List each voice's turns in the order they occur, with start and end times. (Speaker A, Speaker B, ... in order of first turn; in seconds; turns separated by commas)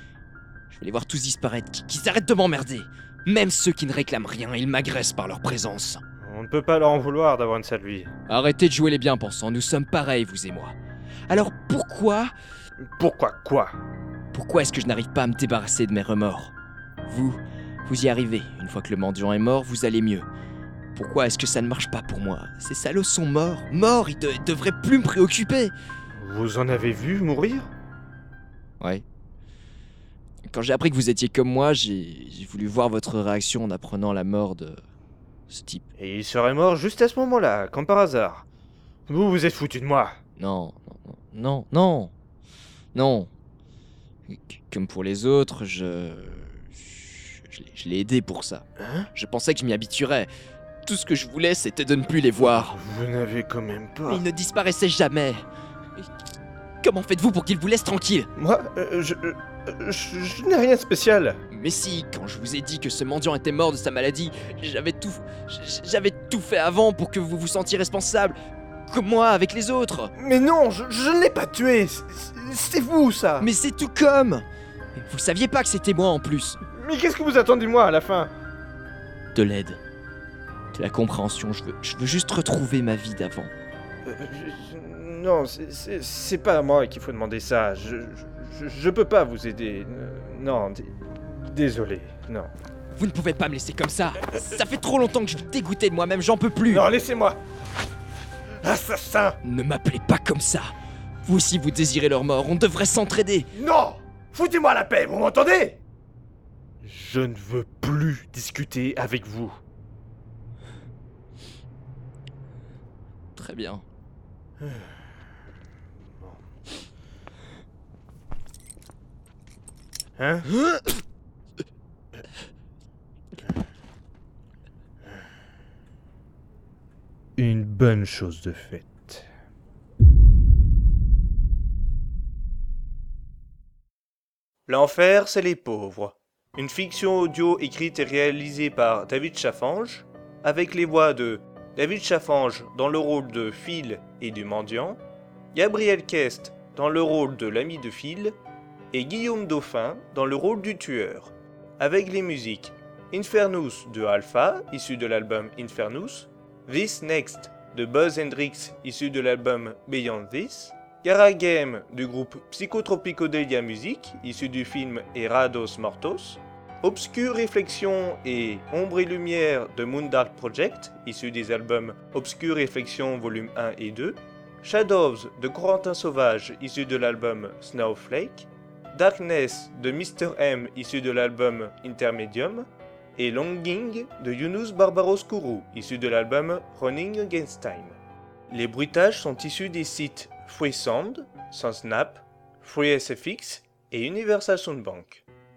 Speaker A: 0.7-6.0, Speaker B: 6.2-8.1, Speaker A: 8.3-10.8, Speaker A: 11.3-12.3, Speaker B: 13.0-13.8, Speaker A: 14.3-16.5, Speaker A: 17.1-20.3, Speaker A: 20.9-25.7, Speaker B: 26.1-27.7, Speaker A: 28.8-29.0, Speaker A: 30.5-34.8, Speaker A: 35.5-35.9, Speaker B: 36.0-38.4, Speaker B: 39.1-40.2, Speaker A: 40.4-42.1, Speaker A: 42.9-43.3, Speaker A: 44.3-50.3, Speaker B: 48.8-49.1, Speaker A: 50.8-52.8, Speaker B: 52.4-54.2, Speaker A: 54.1-55.5, Speaker A: 56.8-58.3, Speaker B: 58.4-61.4, Speaker A: 61.5-68.3, Speaker A: 68.9-70.1, Speaker B: 70.2-73.5, Speaker A: 73.4-76.6, Speaker B: 76.7-78.3, Speaker A: 79.3-79.8, Speaker A: 80.7-83.5, Speaker B: 84.0-92.5, Speaker A: 92.9-96.9, Speaker B: 96.7-97.4, Speaker B: 98.6-99.4, Speaker A: 99.4-103.5, Speaker B: 103.5-105.8, Speaker B: 106.8-109.6, Speaker A: 113.4-113.8, Speaker B: 114.6-114.9, Speaker B: 120.2-120.5, Speaker B: 127.4-129.2, Speaker B: 134.7-145.0, Speaker B: 145.5-148.3, Speaker B: 148.9-187.9, Speaker B: 188.5-195.2